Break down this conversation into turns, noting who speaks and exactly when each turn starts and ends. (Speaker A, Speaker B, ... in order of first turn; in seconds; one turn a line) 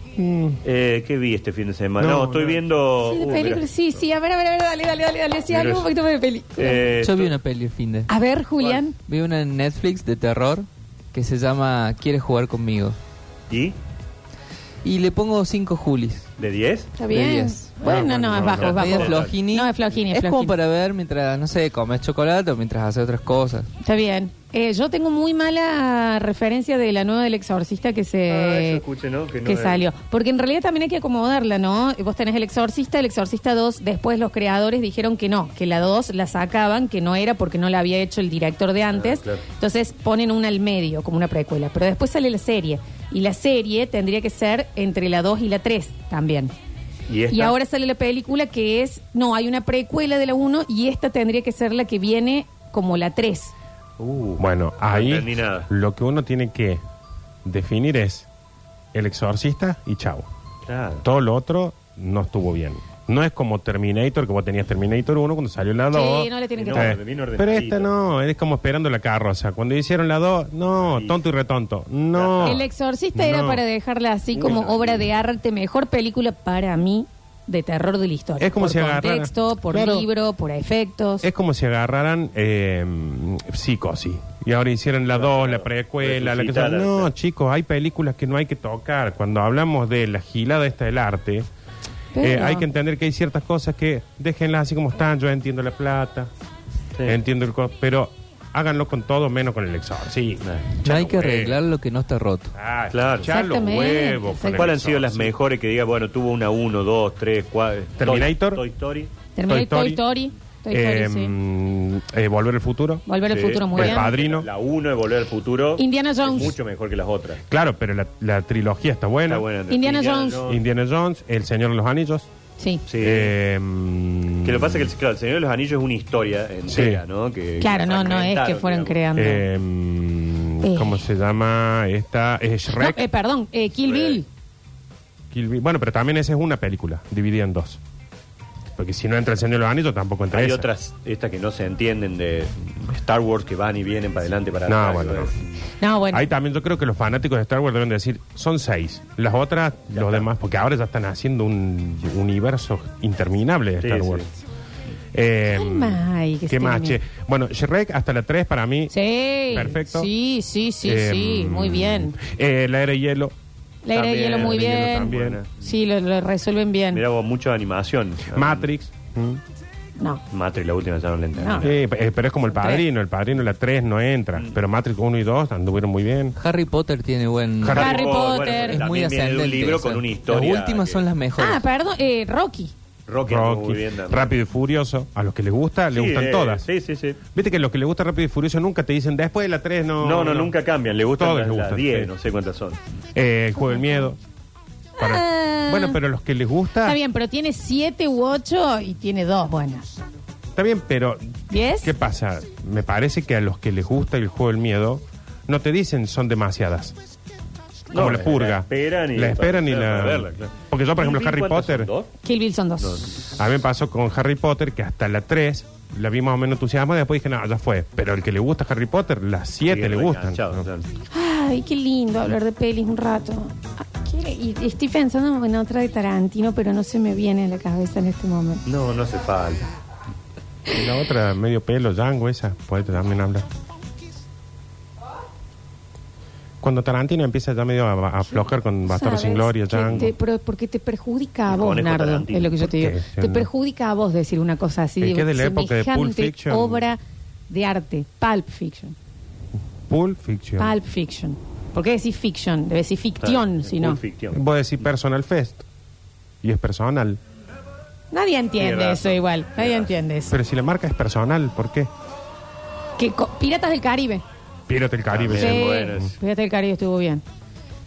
Speaker A: 0.2-0.6
Speaker B: 0.6-3.7
Speaker A: 2.0-2.6
Speaker C: 3.0-6.9
Speaker B: 5.5-5.9
Speaker B: 6.6-7.3
Speaker D: 7.0-8.1
Speaker C: 8.1-8.9
Speaker D: 9.0-13.0
Speaker B: 13.5-13.8
Speaker D: 14.8-16.3
Speaker B: 16.4-16.9
Speaker C: 17.0-20.6
Speaker D: 17.1-17.7
Speaker A: 17.8-18.8
Speaker B: 18.4-19.4
Speaker D: 18.6-23.7
Speaker C: 23.8-28.8
Speaker B: 28.3-29.9
Speaker C: 29.4-46.5
Speaker B: 39.0-39.4
Speaker B: 47.1-47.5
Speaker C: 47.3-53.5
Speaker B: 54.0-55.7
Speaker A: 54.4-56.8
Speaker A: 57.5-58.3
Speaker A: 58.9-60.3
Speaker B: 60.7-61.0
Speaker A: 61.0-72.6
Speaker C: 65.9-67.0
Speaker B: 66.6-67.9
Speaker B: 70.8-71.2
Speaker B: 72.1-72.6
Speaker C: 72.4-81.3
Speaker A: 73.2-73.6
Speaker B: 74.3-75.1
Speaker A: 78.4-80.1
Speaker A: 81.2-91.5
Speaker B: 85.1-87.1
Speaker C: 92.1-92.7
Speaker A: 92.2-96.3
Speaker A: 97.0-101.6
Speaker B: 100.4-100.8
Speaker D: 100.8-102.5
Speaker A: 102.5-105.3
Speaker B: 102.9-103.3
Speaker C: 103.3-104.7
Speaker B: 104.6-109.1
Speaker A: 108.0-108.6
Speaker C: 109.3-111.3
Speaker A: 109.5-110.0
Speaker A: 110.7-113.0
Speaker C: 113.1-114.1
Speaker B: 113.3-117.4
Speaker A: 113.7-114.5
Speaker C: 115.8-116.5
Speaker A: 117.5-119.5
Speaker B: 119.3-120.6
Speaker C: 119.7-120.4
Speaker A: 120.4-122.3
Speaker C: 122.6-122.8
Speaker B: 122.9-123.3
Speaker A: 123.0-124.9
Speaker B: 124.4-129.0
Speaker A: 126.7-127.0
Speaker C: 127.6-129.5
Speaker A: 129.2-133.0
Speaker C: 130.6-131.0
Speaker C: 132.8-134.2
Speaker B: 133.9-134.2
Speaker A: 135.3-137.8
Speaker A: 138.8-140.7
Speaker B: 140.3-145.5
Speaker A: 144.7-145.3
Speaker C: 145.8-146.3
Speaker A: 146.1-154.3
Speaker B: 149.9-150.3
Speaker B: 153.8-154.3
Speaker A: 155.1-158.9
Speaker C: 155.5-157.0
Speaker C: 158.9-162.2
Speaker A: 159.5-160.1
Speaker A: 160.8-163.3
Speaker C: 163.8-167.0
Speaker B: 163.9-165.6
Speaker A: 164.3-165.4
Speaker B: 166.9-168.7
Speaker A: 168.3-169.4
Speaker B: 170.3-171.8
Speaker C: 171.4-171.7
Speaker A: 171.6-176.4
Speaker C: 172.6-172.8
Speaker D: 176.4-181.6
Speaker A: 177.6-178.1
Speaker B: 177.7-181.0
Speaker C: 177.7-178.8
Speaker C: 181.4-182.7
Speaker B: 183.1-184.3
Speaker A: 183.3-186.7
Speaker B: 185.9-187.2
Speaker A: 187.3-190.5
Speaker B: 190.0-192.8
Speaker A: 191.2-192.1
Speaker A: 193.2-194.2
Speaker C: 195.0-196.0
Speaker A: 195.0-197.0
Speaker C: 196.8-199.9
Speaker A: 200.6-206.9
Speaker C: 201.5-201.9
Speaker A: 207.9-211.9
Speaker B: 207.9-212.1
Speaker C: 212.2-213.0
Speaker B: 212.8-213.2
Speaker A: 213.4-220.7
Speaker B: 219.7-220.9
Speaker C: 221.1-228.6
Speaker B: 228.7-229.7
Speaker A: 230.7-233.5
Speaker A: 236.6-240.1
Speaker C: 238.2-248.9
Speaker B: 241.5-242.6
Speaker A: 242.6-243.5
Speaker A: 245.0-246.8
Speaker A: 249.9-250.8
Speaker C: 250.6-254.0
Speaker B: 253.2-254.4
Speaker A: 254.3-255.7
Speaker A: 256.4-257.2
Speaker C: 258.1-260.3
Speaker B: 258.6-259.9
Speaker A: 260.3-261.9
Speaker C: 263.0-264.2
Speaker A: 264.7-266.1
Speaker B: 265.1-266.1
Speaker C: 265.3-267.2